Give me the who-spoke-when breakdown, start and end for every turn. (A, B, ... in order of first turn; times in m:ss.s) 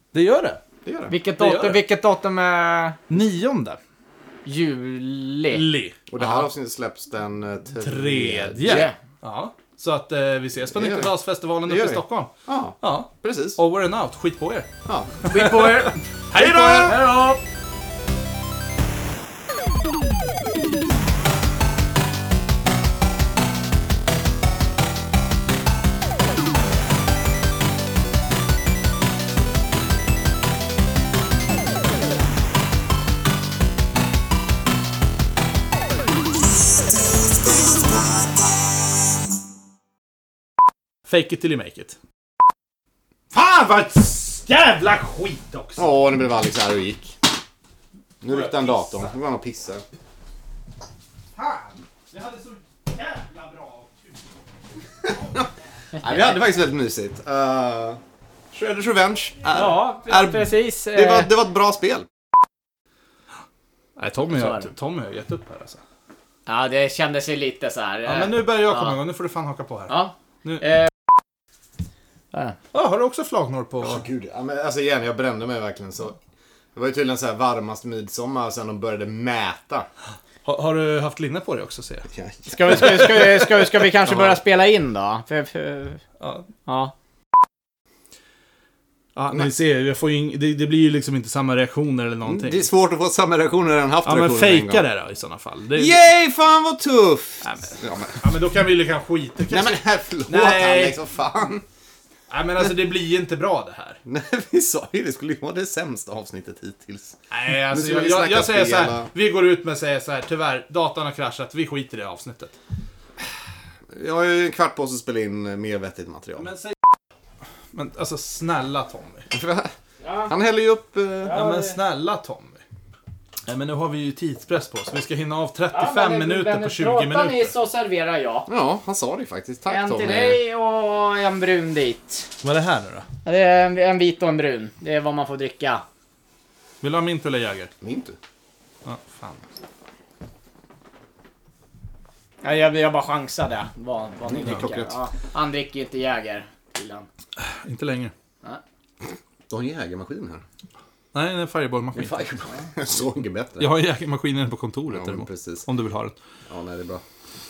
0:00.1-0:00.6 A
0:00.8-0:01.1 B
0:01.1-0:03.0 C
0:01.4-0:01.8 A
0:03.1-0:03.8 A
0:04.4-0:05.6 C
0:05.5-0:06.4 A
0:06.1-0:08.9 B
0:07.8-0:14.7 A
0:08.6-0:08.9 C
0:10.7-0:11.1 B
0:11.6-0:13.6 B
0:14.8-0:15.1 B
0:15.2-0:17.0 A
0:15.3-0:17.4 C
0:16.3-0:16.9 B
0:41.1-0:42.0 A
0:43.3-0:45.9 A
0:45.8-0:47.2 B
0:48.2-0:49.8 B
0:48.2-0:49.1 A
0:51.4-0:54.2 A
0:55.0-0:58.0 B
0:58.5-1:02.1 B
0:59.5-1:01.3 C
1:04.0-1:05.8 A
1:04.3-1:04.7 C
1:06.5-1:09.0 C
1:08.0-1:10.7 A
1:09.9-1:10.9 C
1:12.7-1:14.0 A
1:13.8-1:16.2 B
1:16.7-1:19.9 B
1:20.4-1:22.1 A
1:22.1-1:23.3 B
1:22.5-1:26.0 C
1:22.7-1:23.3 A
1:24.0-1:24.4 B
1:26.2-1:26.5 A
1:26.6-1:26.9 C
1:29.2-1:32.7 A
1:32.3-1:34.8 B
1:34.0-1:36.0 A
1:35.7-1:38.2 B
1:37.4-1:41.0 A
1:39.5-1:41.6 B
1:42.3-1:44.0 A
1:44.0-1:49.1 B
1:47.3-1:52.6 A
1:53.9-1:56.5 B
1:56.4-1:56.9 A
1:57.7-1:59.2 A
1:59.3-1:59.7 B
2:00.0-2:00.3 C
2:00.2-2:01.4 B
2:01.2-2:01.8 C
2:01.3-2:02.6 A
2:03.5-2:07.5 A
2:05.7-2:08.5 C
2:08.5-2:10.4 B
2:09.7-2:12.3 C
2:12.4-2:13.0 A
2:13.2-2:15.8 C
2:16.8-2:17.7 A
2:17.8-2:18.2 B
2:18.8-2:19.4 A
2:22.4-2:27.1 C
2:24.3-2:25.0 B
2:27.5-2:28.1 A
2:29.5-2:30.4 B
2:31.1-2:32.2 A
2:31.9-2:33.7 B
2:33.6-2:36.2 A
2:34.9-2:35.7 B
2:36.5-2:37.0 B